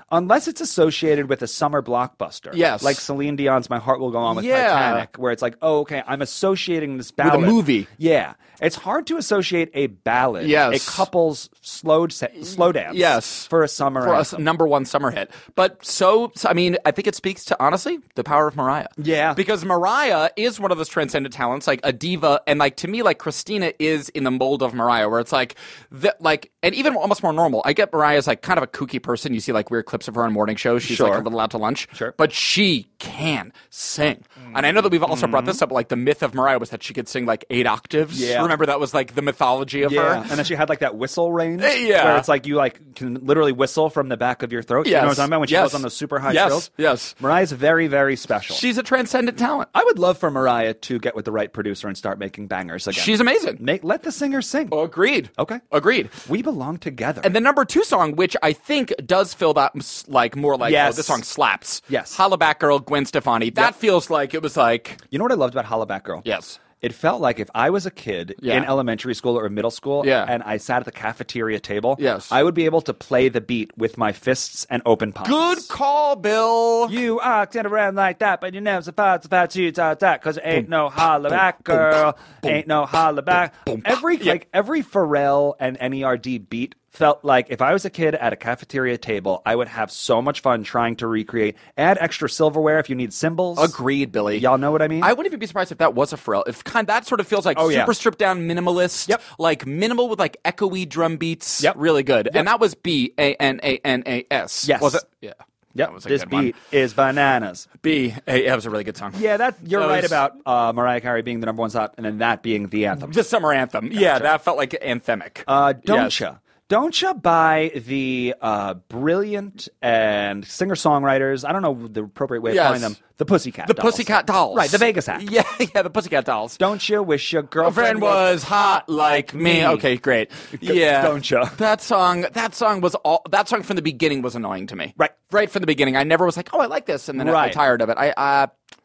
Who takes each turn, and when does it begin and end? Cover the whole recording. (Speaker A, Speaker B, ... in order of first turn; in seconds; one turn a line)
Speaker A: 0.1-14.4
Speaker B: 2.5-3.0
Speaker B: 4.3-5.1
Speaker B: 7.2-7.9
Speaker B: 10.4-11.1
Speaker B: 12.4-40.3
Speaker A: 19.0-19.4
Speaker A: 30.8-31.3
Speaker A: 34.5-35.6
Speaker A: 38.1-38.6
Speaker A: 39.8-48.6
Speaker B: 41.6-42.3
Speaker B: 44.8-47.1
Speaker B: 48.5-49.7
Speaker A: 49.7-54.8
Speaker B: 52.9-53.6
Speaker B: 54.7-56.1
Speaker A: 55.4-55.6
Speaker A: 56.2-57.3
Speaker B: 57.2-65.0
Speaker A: 60.6-61.2
Speaker A: 61.9-62.2
Speaker A: 65.1-75.7
Speaker B: 66.2-66.6
Speaker B: 68.4-68.7
Speaker B: 70.0-70.3
Speaker B: 72.0-72.3
Speaker B: 75.2-77.0
Speaker A: 76.9-93.7
Speaker B: 81.3-82.6
Speaker B: 83.7-84.4
Speaker B: 93.6-94.5
Speaker A: 94.3-95.1
Speaker B: 95.0-106.5
Speaker A: 97.5-98.0
Speaker A: 104.6-105.0
Speaker A: 105.8-107.7
Speaker B: 107.8-110.2
Speaker A: 109.1-113.2
Speaker B: 113.0-116.2
Speaker A: 113.9-114.3
Speaker A: 115.5-125.2
Speaker B: 122.5-123.0
Speaker B: 123.7-126.6
Speaker A: 126.6-129.9
Speaker B: 127.6-138.5
Speaker A: 130.6-131.6
Speaker A: 137.2-137.6